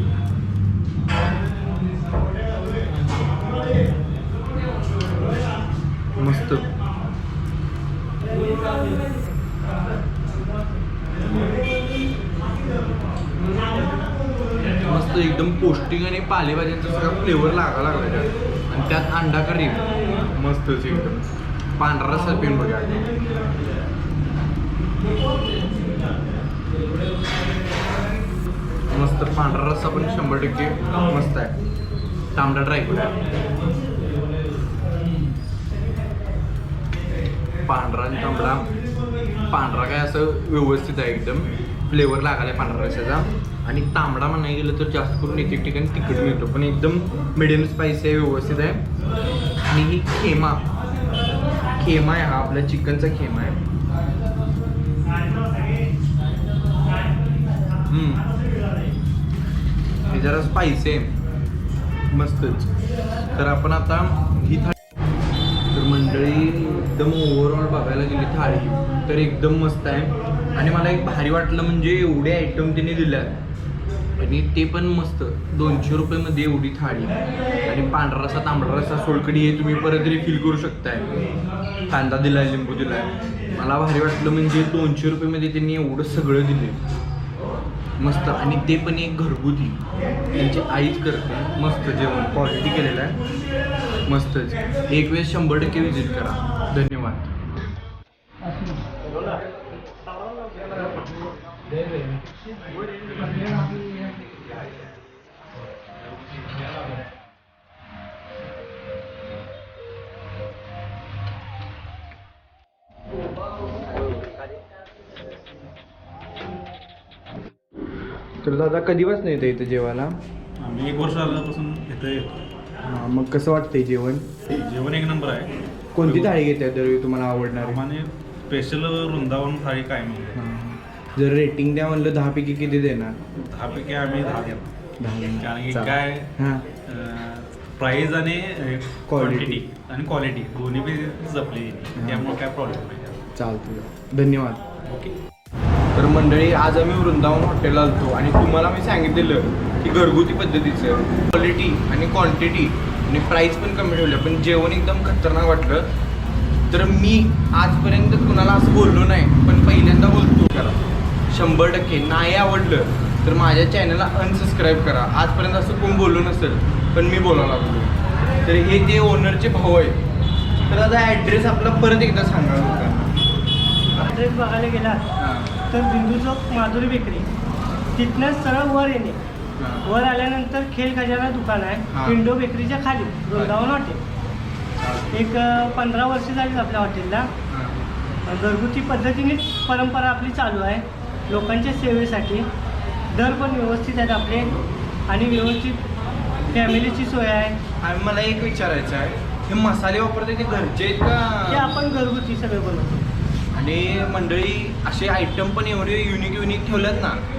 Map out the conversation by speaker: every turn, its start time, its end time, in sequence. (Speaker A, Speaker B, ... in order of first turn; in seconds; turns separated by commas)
Speaker A: 6.2-6.7, Speaker A: 14.8-21.2, Speaker A: 21.8-23.0, Speaker A: 28.9-31.5, Speaker A: 32.4-33.2, Speaker A: 37.7-38.7, Speaker A: 39.5-48.8, Speaker A: 49.7-50.7, Speaker A: 51.8-53.6, Speaker A: 57.9-58.3, Speaker A: 60.1-61.1, Speaker A: 62.1-62.7, Speaker A: 63.3-64.8, Speaker A: 65.7-73.3, Speaker A: 74.2-77.2, Speaker A: 77.7-81.1, Speaker A: 81.9-86.8, Speaker A: 88.0-89.8, Speaker A: 90.3-93.2, Speaker A: 94.1-97.3, Speaker A: 118.4-120.2, Speaker B: 120.6-122.4, Speaker A: 122.8-124.3, Speaker B: 124.5-126.4, Speaker A: 126.0-127.8, Speaker B: 127.6-130.4, Speaker A: 130.3-133.2, Speaker B: 133.4-134.7, Speaker A: 135.0-136.7, Speaker B: 135.3-136.3, Speaker B: 136.9-143.2, Speaker A: 139.1-139.6, Speaker A: 142.0-142.3, Speaker A: 143.3-144.6, Speaker B: 144.9-145.2, Speaker A: 145.9-155.9, Speaker A: 156.7-170.0, Speaker A: 170.7-173.2, Speaker C: 174.0-175.0, Speaker A: 175.2-175.5, Speaker C: 175.7-177.3, Speaker C: 177.9-179.2, Speaker A: 179.6-179.9, Speaker C: 179.8-184.0, Speaker A: 181.9-182.2, Speaker A: 183.3-183.6, Speaker A: 184.8-185.1, Speaker C: 185.1-187.3, Speaker A: 187.5-187.8, Speaker C: 188.3-192.5, Speaker C: 193.1-195.8, Speaker C: 196.5-197.6, Speaker A: 197.8-201.7, Speaker C: 201.5-203.0, Speaker A: 203.5-207.2